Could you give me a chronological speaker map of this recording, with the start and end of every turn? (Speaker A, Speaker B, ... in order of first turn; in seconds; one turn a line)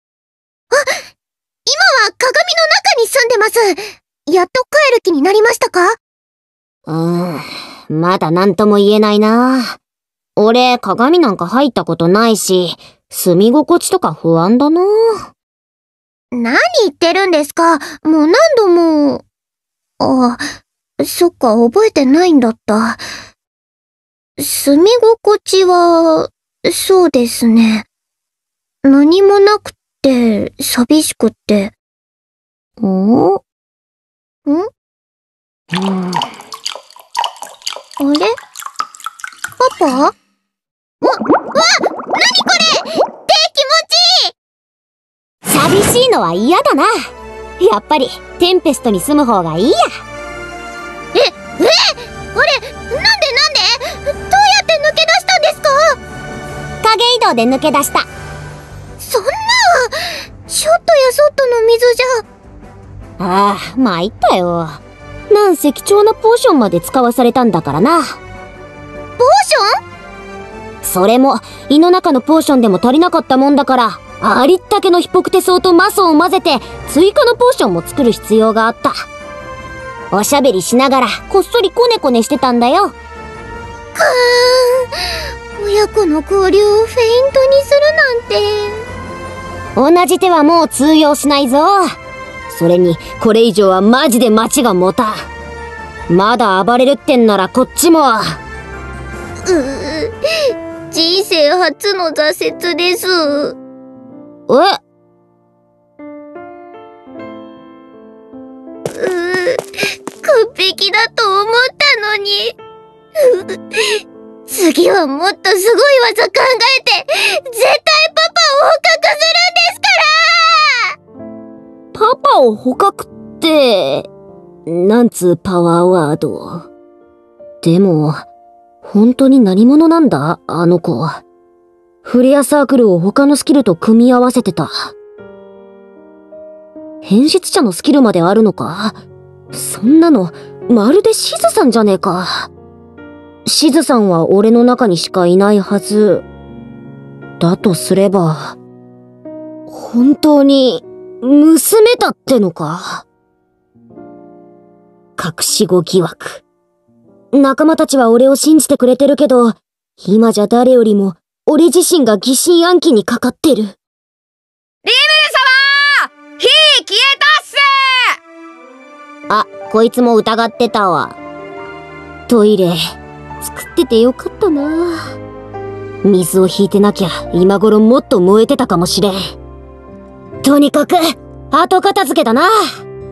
Speaker A: 1.6-5.9
Speaker B: 6.9-9.8
Speaker B: 10.4-14.9
Speaker A: 16.3-19.2
Speaker A: 20.0-20.4
Speaker A: 21.0-23.0
Speaker A: 24.4-27.9
Speaker A: 28.8-31.7
Speaker B: 32.8-33.4
Speaker B: 35.7-36.2
Speaker A: 38.0-38.3
Speaker A: 39.6-40.1
Speaker A: 41.0-44.3
Speaker B: 45.5-46.9
Speaker B: 47.6-49.8
Speaker A: 51.1-56.0
Speaker B: 56.8-58.1
Speaker A: 59.0-59.9
Speaker A: 60.5-62.2
Speaker B: 63.2-68.2
Speaker A: 69.2-69.7
Speaker B: 70.8-79.0
Speaker B: 80.1-82.9
Speaker A: 83.9-84.9
Speaker A: 85.6-88.8
Speaker B: 89.8-91.9
Speaker B: 92.5-95.3
Speaker B: 96.1-98.4
Speaker A: 99.5-100.1
Speaker A: 100.9-103.6
Speaker B: 104.5-104.8
Speaker A: 108.9-109.6
Speaker A: 110.2-112.5
Speaker A: 113.2-113.8
Speaker A: 114.5-120.8
Speaker B: 121.9-124.1
Speaker B: 124.7-126.7
Speaker B: 127.6-128.2
Speaker B: 128.8-131.2
Speaker B: 132.0-134.9
Speaker B: 137.0-139.0
Speaker B: 139.5-142.5
Speaker B: 143.4-146.2
Speaker B: 147.4-148.6
Speaker B: 149.7-153.1
Speaker B: 155.2-156.4
Speaker B: 157.3-163.8
Speaker C: 164.8-167.7
Speaker B: 169.3-171.2
Speaker B: 172.3-172.8
Speaker B: 173.4-175.1
Speaker B: 176.0-179.2
Speaker B: 180.4-182.5